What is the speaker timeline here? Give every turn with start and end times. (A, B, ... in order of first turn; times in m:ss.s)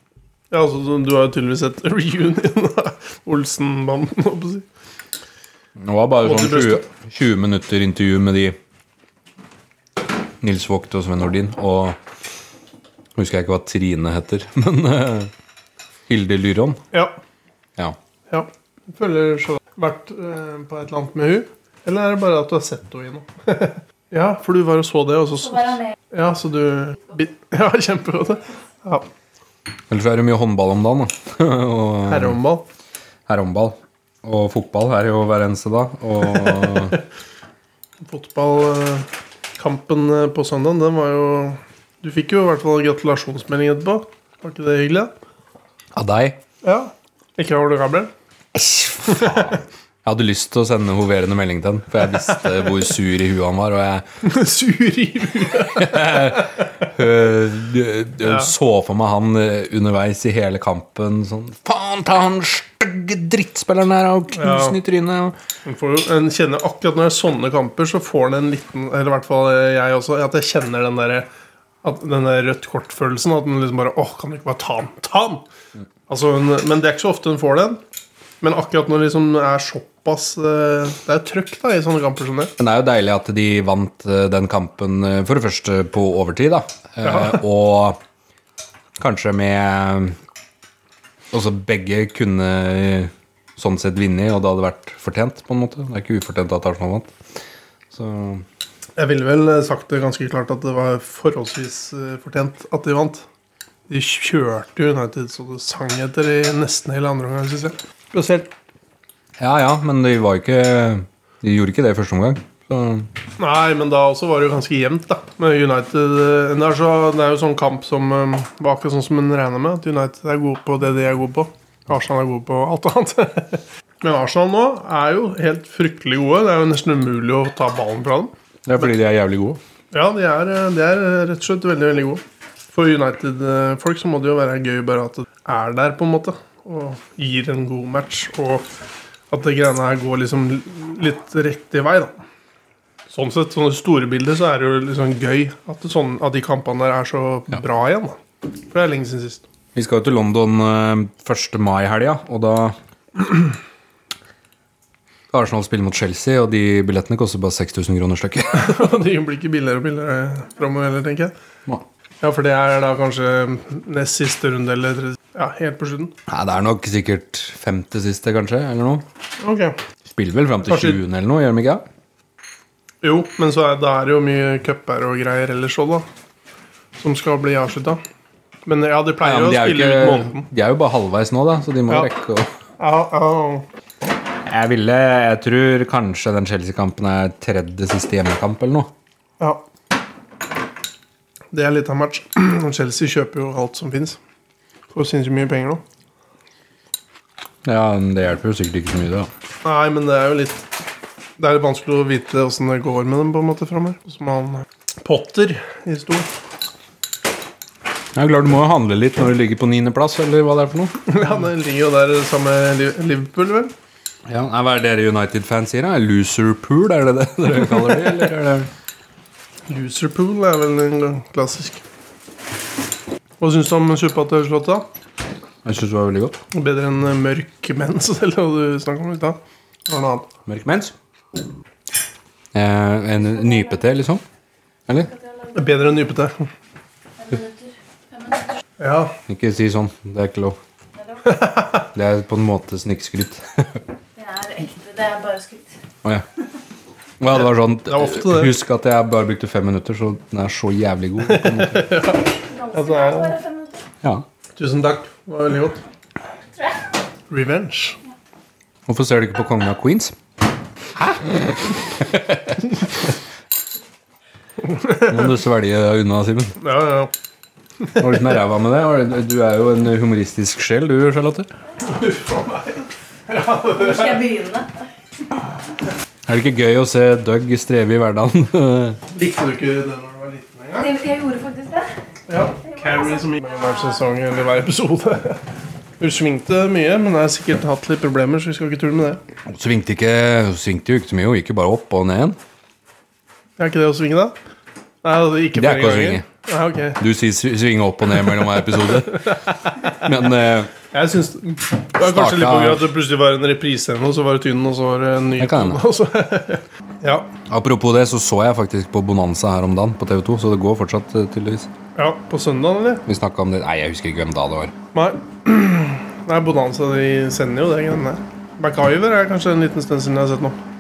0:00.5-0:04.7 A
0:05.8-0:08.6 B
0:06.2-0:06.8 A
0:10.4-0:12.0 B
0:13.2-0:15.3 B
0:16.1-0:16.8 B
0:18.3-0:29.1 A
0:29.9-0:32.4 B
0:32.1-0:32.6 A
0:33.3-0:37.0 B
0:38.0-0:45.1 A
0:45.9-0:46.4 B
0:46.6-0:48.1 A
0:48.5-0:54.1 B
0:49.1-0:49.5 A
0:54.2-0:56.7 A
0:55.6-1:05.4 B
0:58.2-0:58.5 A
1:04.3-1:04.8 A
1:05.6-1:11.3 A
1:11.8-1:15.4 A
1:16.1-1:17.8 A
1:18.4-1:22.5 A
1:22.6-1:28.0 B
1:27.0-1:27.3 A
1:29.0-1:30.2 B
1:31.3-1:37.1 B
1:37.9-1:38.4 B
1:39.0-1:43.3 A
1:43.9-1:48.5 A
1:49.4-1:53.1 B
1:53.4-2:08.3 A
2:08.7-2:09.6 B
2:09.9-2:18.7 A
2:19.3-2:22.2 A
2:23.1-2:29.4 A
2:29.8-2:33.3 B
2:35.3-2:38.9 B
2:38.5-2:41.3 A
2:42.2-2:46.1 A
2:46.3-2:49.0 B
2:49.4-2:49.8 A
2:50.0-2:51.8 B
2:50.6-2:51.0 A
2:53.0-2:56.1 A
2:57.0-2:58.0 A
2:58.7-3:00.5 A
2:59.2-3:02.5 B
3:02.8-3:03.7 A
3:04.4-3:08.9 B
3:11.5-3:14.2 A
3:14.9-3:15.8 A
3:17.6-3:19.3 B
3:19.6-3:20.7 A
3:21.4-3:26.3 A
3:28.1-3:31.0 B
3:31.1-3:33.7 A
3:34.3-3:38.7 B
3:39.7-3:41.8 A
3:43.4-3:44.9 A
3:45.6-3:46.4 B
3:46.5-3:50.3 A
3:50.5-3:51.0 B
3:52.5-3:54.2 B
3:55.2-3:55.6 C
3:55.5-3:56.5 A
3:57.2-3:58.5 C
3:58.8-3:59.2 A
3:59.3-4:00.6 B
4:01.0-4:01.2 C
4:01.2-4:01.9 A
4:01.9-4:03.8 B
4:04.2-4:05.7 C
4:07.2-4:11.9 B
4:07.8-4:08.5 A
4:11.2-4:13.4 A
4:12.0-4:13.8 C
4:14.6-4:15.8 A
4:17.3-4:18.0 A
4:18.9-4:20.2 B
4:21.0-4:22.7 B
4:24.7-4:25.2 A
4:25.1-4:26.6 B
4:26.6-4:27.1 A
4:28.0-4:31.5 B
4:31.8-4:34.4 A
4:33.8-4:34.7 C
4:36.3-4:39.0 B
4:39.1-4:40.9 A
4:40.8-4:41.9 C
4:42.3-4:45.4 A
4:42.6-4:44.0 C
4:46.0-4:49.2 A
4:49.5-4:52.4 B
4:53.6-4:54.4 A
4:55.0-4:57.0 A
4:55.5-4:56.3 B
4:57.0-4:59.4 B
4:59.2-4:59.5 A
4:59.9-5:00.7 B
5:00.9-5:07.3 A
5:02.0-5:02.8 B
5:05.4-5:05.8 B
5:07.5-5:11.7 B
5:12.0-5:13.0 A
5:13.1-5:14.7 B
5:14.9-5:20.6 A